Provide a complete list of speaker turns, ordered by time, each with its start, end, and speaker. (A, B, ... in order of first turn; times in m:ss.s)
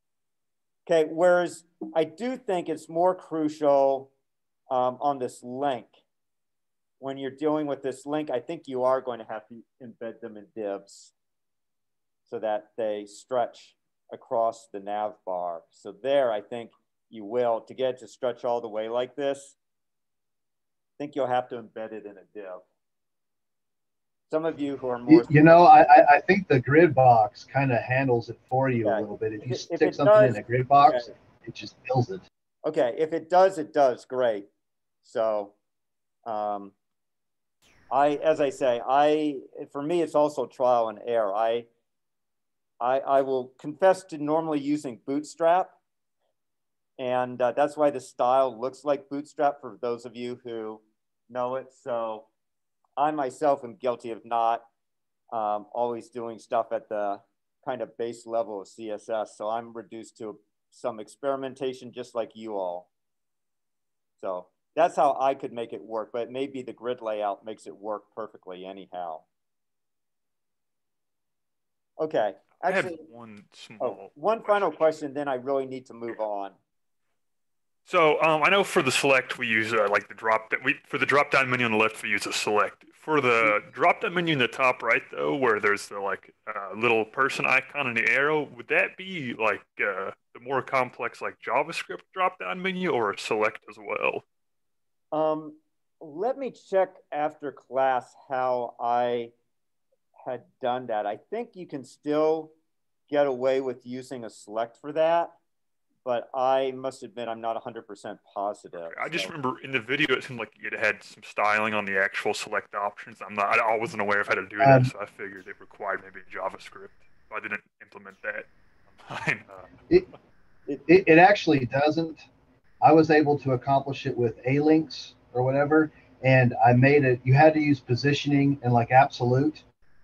0:00.9-0:04.1 A
0:04.7-0:05.9 A
0:07.0-0:11.1 A
0:12.3-0:19.6 A
0:21.0-0:22.6 A
0:24.3-0:25.5 A
0:25.1-0:32.2 B
0:28.8-0:31.1 A
0:32.6-0:34.5 A
0:35.0-0:35.5 A
0:36.2-0:36.7 A
0:37.9-0:41.7 A
0:42.8-0:45.8 A
0:47.0-0:52.3 A
0:53.0-0:54.6 A
0:55.3-1:02.9 A
1:04.2-1:09.2 A
1:12.0-1:13.0 A
1:12.6-1:14.8 C
1:13.8-1:16.6 A
1:17.9-1:34.2 C
1:35.1-1:39.3 A
1:40.2-1:42.5 A
1:43.1-1:45.4 A
1:46.0-1:49.3 A
1:48.8-1:59.6 C
1:54.6-1:54.9 B
2:00.9-2:02.2 B
2:02.8-2:09.6 B